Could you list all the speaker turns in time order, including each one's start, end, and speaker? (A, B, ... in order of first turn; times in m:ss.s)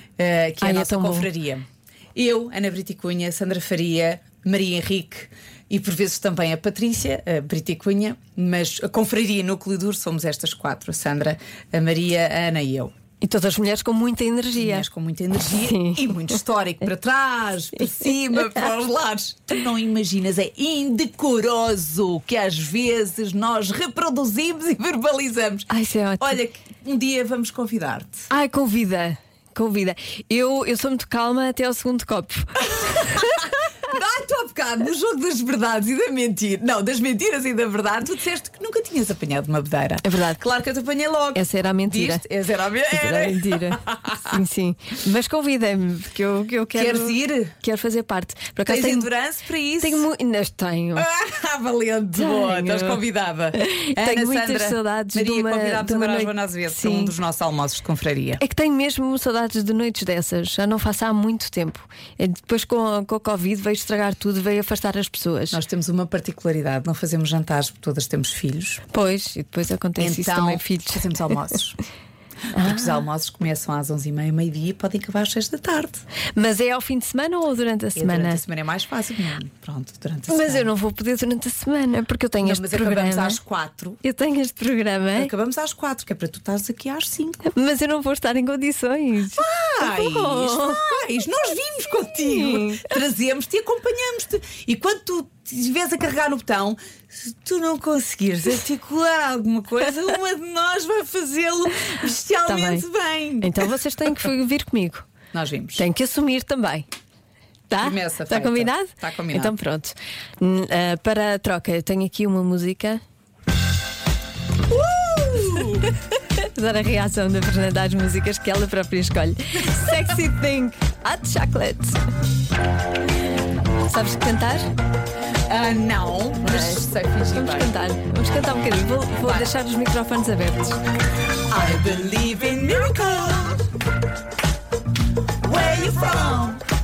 0:00.2-0:12.9 A
0:00.6-0:01.3 B
0:13.2-0:14.9 B
0:14.5-0:28.3 A
0:15.7-0:16.4 B
0:25.7-0:26.4 B
0:28.3-0:33.5 B
0:32.8-0:44.4 A
0:40.0-0:40.4 B
0:41.4-0:42.2 B
0:42.9-0:49.1 B
0:46.8-0:47.6 A
0:48.7-0:50.1 A
0:49.8-0:51.1 B
0:51.0-0:58.4 A
0:52.2-0:53.0 B
0:53.6-0:57.1 B
0:58.4-1:05.6 B
1:05.5-1:08.8 A
1:08.9-1:11.3 B
1:10.0-1:11.8 A
1:12.5-1:13.0 B
1:12.6-1:16.0 A
1:16.4-1:18.4 B
1:18.0-1:20.7 A
1:20.3-1:23.4 B
1:22.4-1:24.0 A
1:24.0-1:25.3 B
1:25.2-1:27.4 A
1:27.5-1:31.0 B
1:29.4-1:43.7 A
1:32.3-1:32.8 B
1:42.5-1:42.8 B
1:43.4-1:45.1 B
1:45.3-1:45.8 A
1:45.8-1:46.9 B
1:47.7-1:53.0 B
1:47.8-1:49.5 A
1:54.7-1:55.9 A
1:56.4-2:02.0 B
2:03.9-2:04.7 B
2:05.5-2:07.7 A
2:06.4-2:10.8 B
2:09.2-2:09.5 A
2:11.5-2:13.7 A
2:15.4-2:16.6 A